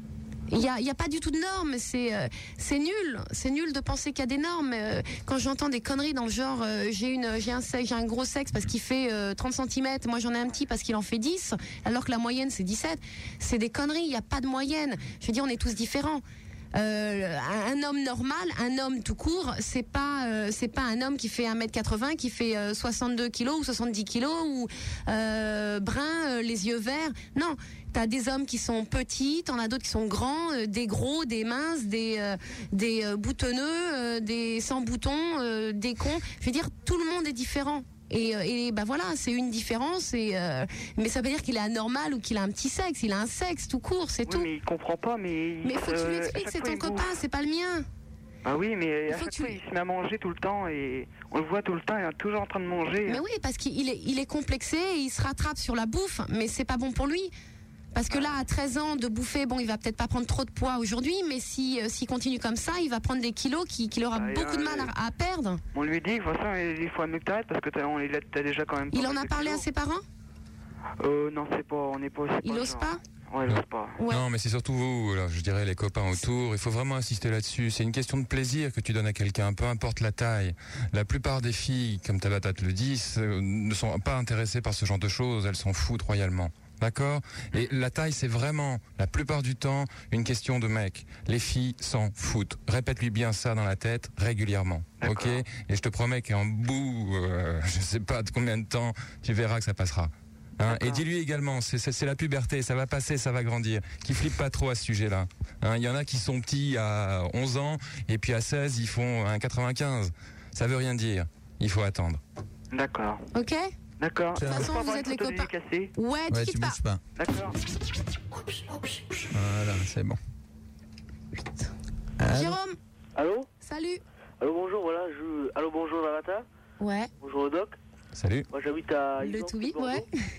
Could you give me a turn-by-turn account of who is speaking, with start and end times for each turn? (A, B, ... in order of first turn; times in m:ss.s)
0:00.5-0:16.2 A
0:16.7-0:44.5 A
0:44.3-0:47.1 B
0:45.6-0:47.9 A
0:48.4-0:53.2 B
0:49.1-0:49.6 A
0:53.1-0:57.3 A
0:57.9-1:05.6 A
1:04.1-1:04.9 B
1:05.7-1:09.6 B
1:08.9-1:10.0 A
1:11.0-1:14.0 B
1:12.4-1:13.0 A
1:13.5-1:52.2 C
1:14.0-1:14.2 A
1:35.0-1:35.4 B
1:40.6-1:41.0 B
1:52.7-1:53.2 B
1:53.3-1:53.7 A
1:54.0-1:55.9 B
1:54.4-1:54.7 D
1:54.4-1:56.8 A
1:56.3-1:57.0 D
1:57.2-1:57.6 B
1:59.3-2:00.2 D
2:02.2-2:02.6 D
2:02.3-2:02.8 A
2:03.2-2:03.5 E
2:03.6-2:04.0 A
2:04.4-2:06.4 E
2:06.8-2:07.1 A
2:07.2-2:07.8 E
2:08.2-2:08.5 C
2:08.5-2:10.1 E
2:09.2-2:10.1 A